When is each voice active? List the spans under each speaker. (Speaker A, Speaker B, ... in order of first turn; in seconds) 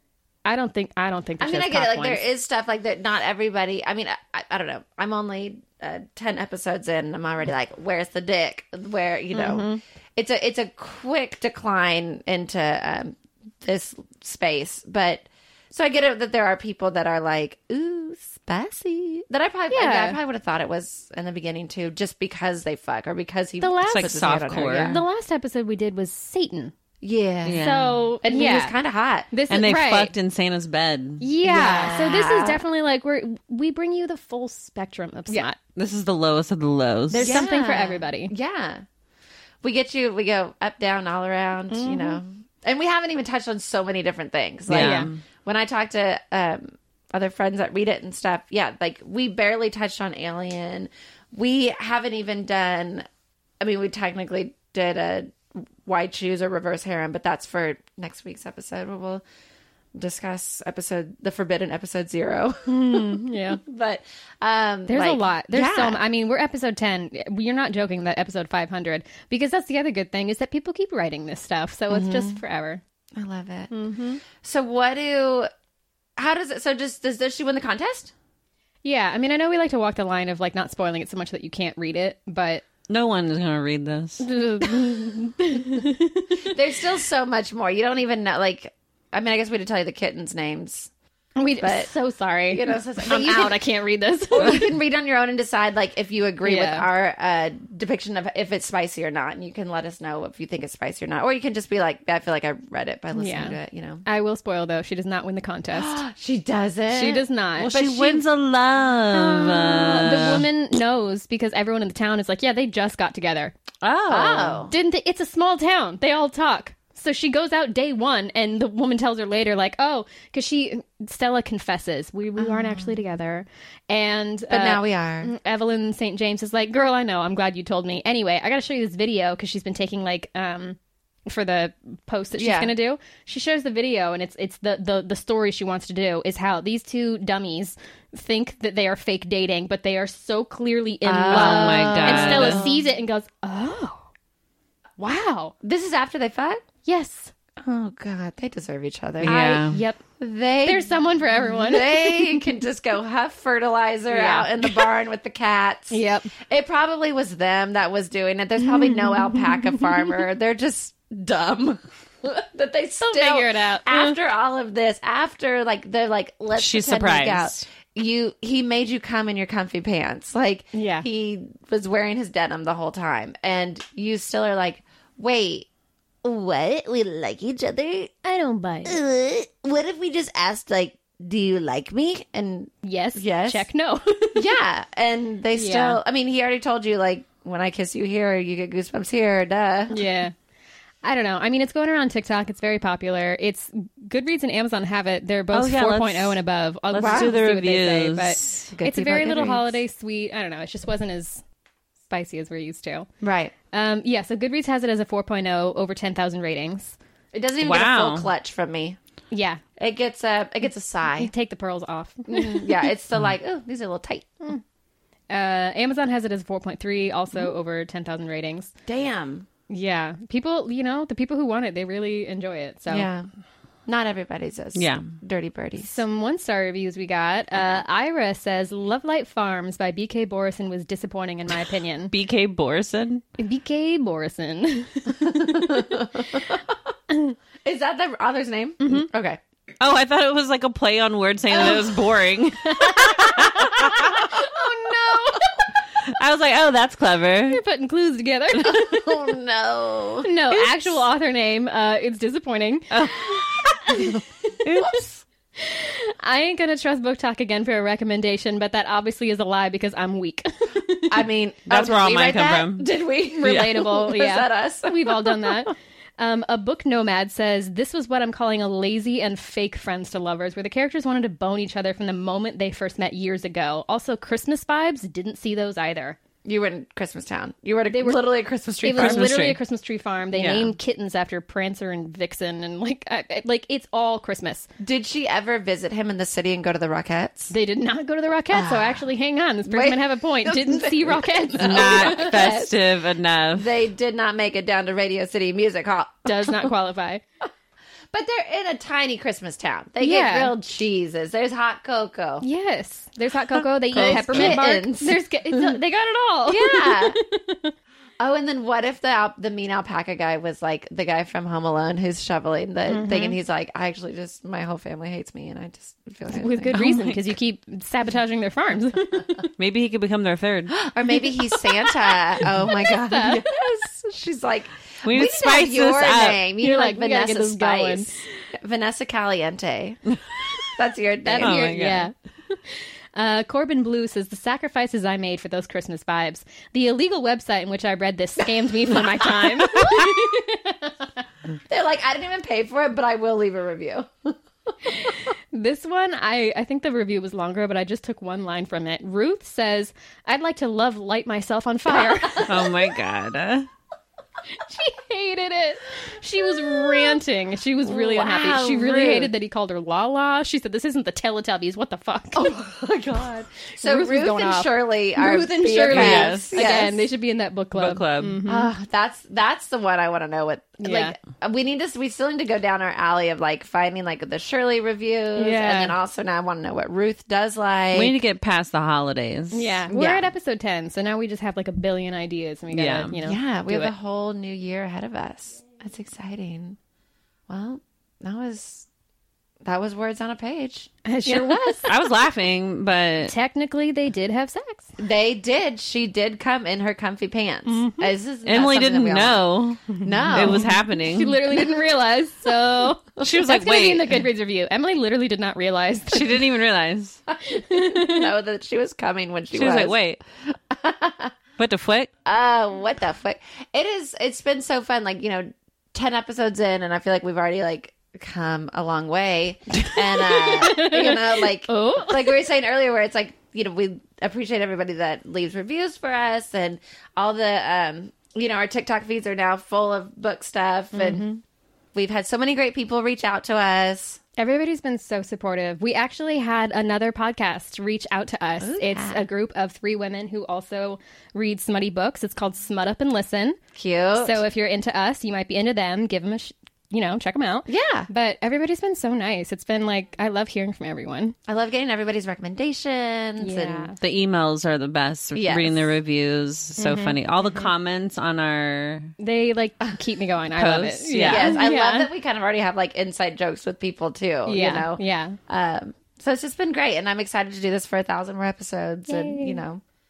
Speaker A: 0.4-2.2, 9.3-9.8, 19.7-20.2, 23.6-26.7, 27.6-28.8, 29.3-30.1, 31.2-35.5, 37.1-38.3, 41.7-42.2, 44.7-45.1, 62.7-63.6, 64.9-72.8, 73.7-74.2, 78.8-82.6, 84.2-86.5, 91.4-94.7, 96.4-96.8, 103.2-106.0, 106.9-108.0, 109.1-113.5, 114.7-144.1, 145.0-145.5, 146.8-147.3, 149.2-150.0, 150.6-152.5, 154.1-154.9, 155.9-156.3, 158.6-160.2, 163.0-164.2, 170.7-171.1, 178.2-179.0, 182.8-184.4, 185.5-186.0, 189.9-190.3, 191.0-201.4, 202.1-203.1, 203.7-206.9, 209.3-209.6, 211.2-212.9, 215.3-218.7, 219.7-223.1, 225.8-232.1, 233.4-235.9, 237.1-237.3, 238.8-239.1, 242.7-245.6, 247.4-249.1, 250.2-253.4, 253.9-254.2, 255.6-261.2, 263.3-276.2, 277.9-278.2, 278.8-284.7, 287.5-292.6, 296.2-297.2, 300.0-300.5, 302.4-307.7, 312.9-313.4, 316.3-319.5, 321.2-321.9, 322.7-323.4, 326.6-328.1, 331.2-341.1, 344.9-352.4, 354.5-362.5, 363.8-368.7, 370.8-371.1, 375.3-375.9, 379.5-383.9, 391.0-391.9, 393.2-394.9, 397.7-398.1, 399.9-406.4, 407.5-408.3, 420.2-422.3, 430.9-431.4, 434.4-443.6, 444.1-451.3, 453.4-453.9, 456.8-457.7, 459.2-462.1, 464.4-465.4, 469.1-469.6
Speaker B: 1.4-25.0, 27.0-27.6, 28.2-29.3, 31.4-32.6, 37.1-38.8, 39.6-53.1, 53.6-59.2, 60.0-66.0, 71.9-72.4, 73.2-75.5, 76.2-78.1, 86.4-90.9, 91.6-91.9, 92.5-93.7, 94.3-104.0, 105.7-108.2, 114.1-114.7, 122.4-123.0, 124.5-125.3, 132.4-132.7, 141.0-142.8, 145.6-146.6, 147.6-149.6, 150.2-175.7, 176.2-178.1, 178.8-183.6, 184.3-190.1, 197.0-197.4, 198.7-199.8, 203.2-203.5, 207.3-209.0, 209.8-211.3, 212.3-214.4, 218.9-219.4, 222.9-223.3, 223.9-226.0, 235.1-236.6, 237.6-239.4, 248.6-251.0, 253.7-254.1, 254.8-255.2, 261.1-265.6, 276.4-279.4, 284.8-287.5, 288.5-289.0, 289.7-292.7, 293.5-296.7, 298.1-302.4, 303.9-305.8, 306.5-307.2, 308.2-317.0, 320.7-330.0, 330.7-331.7, 338.7-339.5, 341.7-344.3, 351.9-352.7, 356.6-357.2, 357.9-359.3, 362.3-367.0, 368.4-378.2, 379.9-380.3, 383.2-386.8, 387.5-388.9, 389.6-391.6, 395.0-400.7, 407.3-410.0, 410.5-411.3, 412.2-431.3, 431.9-434.2, 438.6-439.2, 443.7-444.4, 447.7-448.1, 451.5-453.9, 455.3-455.9, 461.2-469.8
Speaker C: 23.9-25.0, 27.4-28.1, 29.5-31.2, 35.7-37.5, 44.7-45.2, 82.9-84.2, 107.6-110.4, 113.8-114.7, 141.3-142.6, 149.2-149.8, 166.5-167.6, 195.5-196.4, 196.9-198.6, 207.6-208.3, 224.7-225.1, 232.1-233.2, 239.8-244.1, 246.1-247.6, 254.6-254.9, 261.7-262.9, 263.4-263.7, 278.9-279.6, 280.3-280.7, 291.6-293.8, 303.9-304.6, 316.7-317.2, 319.6-320.7, 325.0-326.4, 331.3-332.1, 352.4-353.7, 365.8-366.7, 367.7-368.4, 377.9-379.8, 382.7-383.2, 391.9-393.3, 398.4-401.4, 403.2-404.2, 406.1-407.2, 409.5-410.2, 411.6-412.1, 454.0-459.1, 460.5-461.6